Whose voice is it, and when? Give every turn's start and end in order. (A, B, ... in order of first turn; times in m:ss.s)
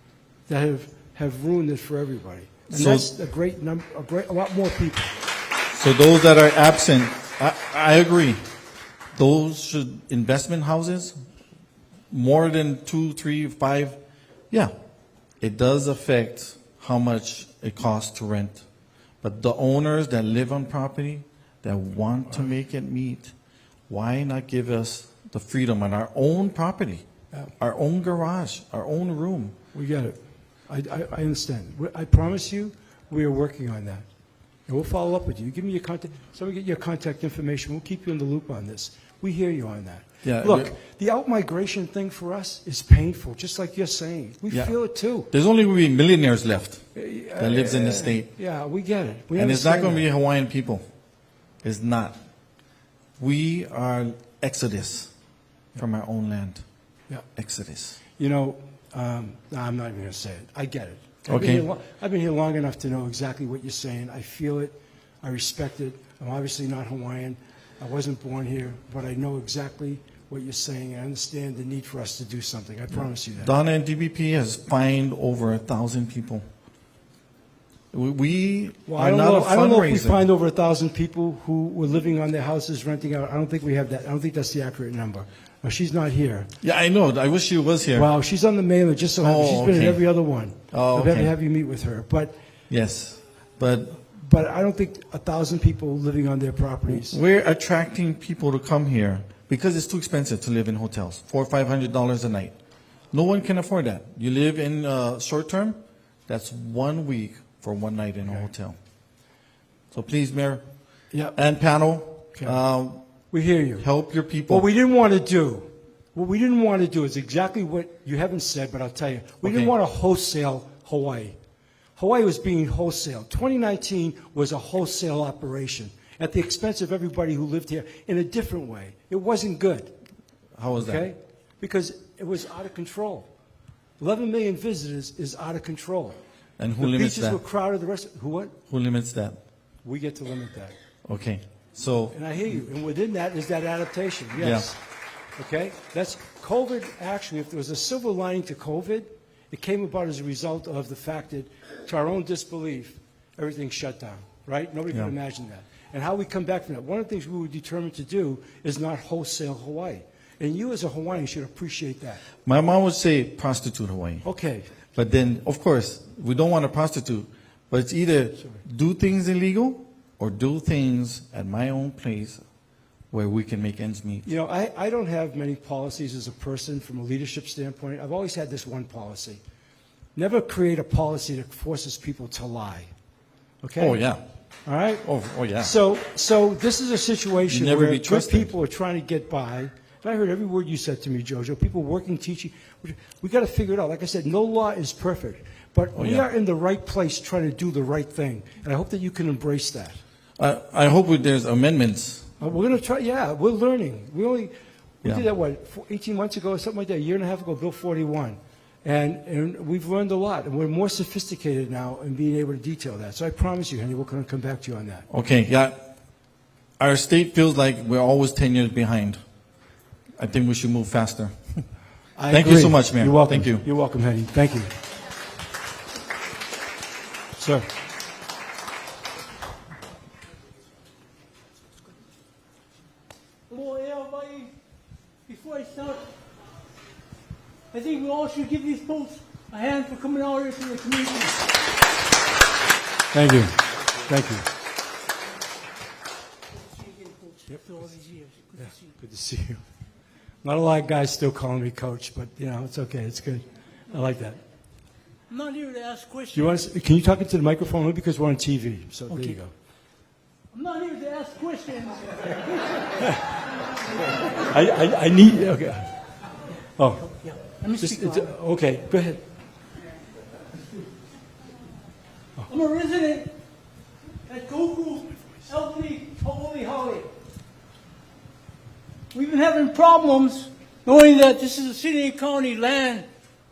0:00.5-0:05.2 A
0:02.7-0:03.0 B
0:05.7-0:08.4 B
0:09.1-0:11.1 B
0:12.1-0:14.0 B
0:15.4-0:18.6 B
0:19.2-0:23.3 B
0:23.9-0:27.0 B
0:27.6-0:29.5 B
0:29.7-0:34.0 A
0:34.7-0:45.3 A
0:40.2-0:40.7 B
0:44.5-0:44.8 B
0:45.3-0:46.8 B
0:46.9-0:50.1 A
0:47.4-0:48.3 B
0:49.3-0:50.8 B
0:51.6-0:52.2 B
0:53.2-0:55.1 B
0:55.8-0:56.6 B
0:57.4-0:58.0 B
0:58.2-1:13.5 A
1:01.3-1:01.6 B
1:13.4-1:16.4 B
1:17.9-1:20.2 B
1:18.8-1:26.5 A
1:26.6-1:28.1 B
1:27.9-1:32.3 A
1:29.2-1:30.0 B
1:30.7-1:31.3 B
1:32.7-1:34.0 B
1:34.1-1:37.2 A
1:36.9-1:42.5 B
1:43.1-1:48.8 B
1:49.9-1:50.6 B
1:51.1-1:51.4 A
1:51.3-1:53.0 B
1:53.3-1:53.8 A
1:53.8-1:54.6 B
1:54.5-2:01.4 A
1:59.4-1:59.7 B
2:02.0-2:09.9 A
2:10.6-2:11.1 B
2:10.8-2:13.3 A
2:14.0-2:16.2 A
2:16.6-2:17.4 B
2:16.8-2:18.5 A
2:18.7-2:19.4 B
2:19.8-2:20.8 A
2:21.0-2:22.6 B
2:22.1-2:24.8 A
2:24.4-2:24.7 B
2:25.4-2:42.2 A
2:42.4-2:44.2 B
2:44.2-2:44.7 A
2:44.9-2:52.4 B
2:53.1-2:54.2 B
2:54.2-2:59.4 A
3:00.2-3:02.9 A
3:03.6-3:04.0 A
3:03.8-3:04.2 B
3:04.6-3:05.0 A
3:05.0-3:05.7 B
3:05.6-3:20.0 A
3:07.5-3:08.5 B
3:16.0-3:16.2 B
3:20.4-3:22.3 B
3:22.4-3:35.1 A
3:35.1-3:35.8 B
3:36.8-3:39.2 B
3:40.2-3:41.6 B
3:42.2-3:44.7 A
3:42.3-3:43.6 B
3:47.4-3:47.6 A
3:53.5-3:54.5 C
3:55.3-3:56.0 C
3:57.7-4:01.4 C
4:03.1-4:04.4 A
4:06.8-4:08.9 C
4:08.6-4:09.6 A
4:10.4-4:14.4 A
4:15.3-4:16.6 C
4:16.3-4:19.5 A
4:19.1-4:19.4 C
4:20.5-4:23.1 C
4:23.0-4:23.3 A
4:24.3-4:25.9 A
4:26.8-4:27.1 A
4:27.1-4:28.3 C
4:27.8-4:29.2 A
4:32.5-4:33.3 C
4:34.3-4:37.1 C
4:39.1-4:43.1 C